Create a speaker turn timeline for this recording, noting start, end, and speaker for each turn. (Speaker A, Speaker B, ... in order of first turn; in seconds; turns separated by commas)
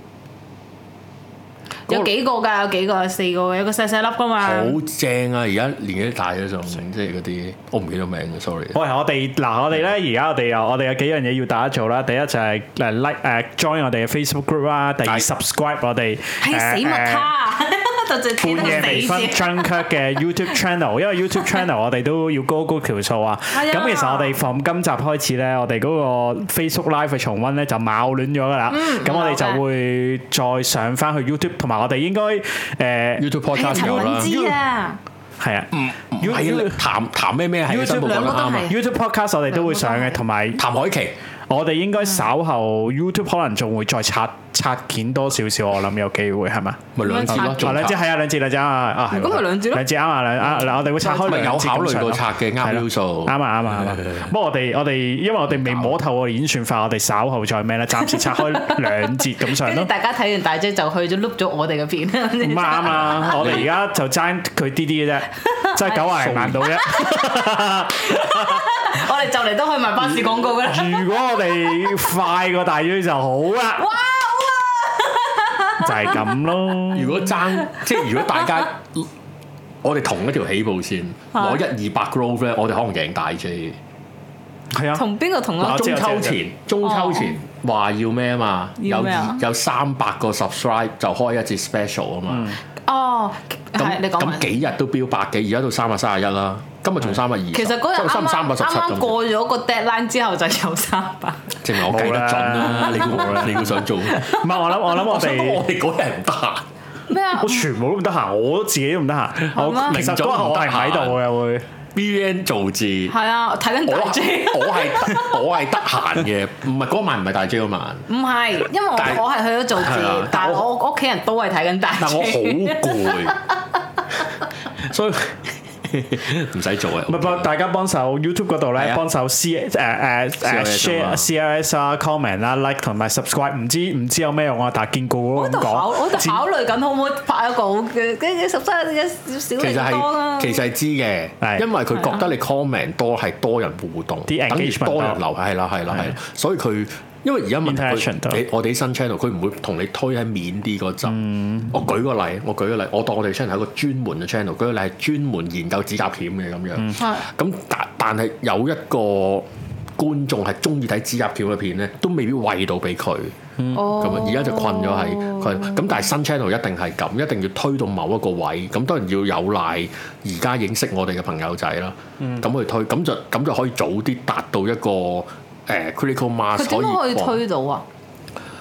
Speaker A: 1.9-4.8, Speaker B: 4.4-8.8, Speaker C: 8.7-17.3, Speaker A: 16.4-19.9, Speaker C: 18.4-34.5, Speaker A: 23.5-24.4, Speaker A: 28.7-29.6, Speaker B: 33.2-34.3, Speaker A: 33.5-35.0, Speaker C: 35.4-36.8, Speaker B: 35.7-38.7, Speaker C: 37.7-40.6, Speaker A: 37.8-38.8, Speaker A: 39.5-40.2, Speaker B: 40.6-41.1, Speaker C: 41.5-59.9, Speaker B: 47.0-48.0, Speaker A: 47.0-47.9, Speaker A: 49.1-49.9, Speaker B: 51.0-54.3, Speaker A: 51.0-51.5, Speaker B: 55.6-55.9, Speaker A: 58.3-63.3, Speaker C: 62.4-68.9, Speaker B: 63.0-63.7, Speaker A: 65.6-67.3, Speaker B: 66.2-66.6, Speaker A: 67.9-71.0, Speaker C: 70.3-73.9, Speaker A: 73.8-76.1, Speaker C: 75.8-77.3, Speaker B: 76.9-79.1, Speaker A: 77.6-78.6, Speaker B: 79.8-83.8, Speaker A: 81.3-81.6, Speaker C: 84.7-85.0, Speaker A: 84.9-85.9, Speaker C: 85.6-86.4, Speaker B: 85.6-92.6, Speaker A: 86.8-87.4, Speaker A: 88.8-89.4, Speaker C: 92.3-92.6, Speaker A: 92.9-94.6, Speaker B: 93.8-99.2, Speaker A: 97.5-101.6, Speaker B: 101.6-106.7, Speaker C: 101.8-105.6, Speaker A: 107.1-107.7, Speaker C: 107.4-111.7, Speaker A: 109.5-110.1, Speaker B: 109.8-111.2, Speaker B: 111.9-113.2, Speaker A: 113.1-115.7, Speaker B: 113.9-118.1, Speaker A: 118.1-123.4, Speaker B: 119.0-120.7, Speaker B: 122.0-123.4, Speaker B: 124.8-127.5, Speaker C: 127.1-136.4, Speaker B: 128.8-129.0, Speaker B: 130.4-131.3, Speaker A: 135.4-140.6, Speaker B: 139.6-177.4, Speaker C: 141.4-141.7, Speaker C: 144.3-145.2, Speaker C: 147.6-148.4, Speaker C: 151.1-151.7, Speaker C: 163.6-163.9, Speaker A: 163.7-165.8, Speaker A: 176.6-177.8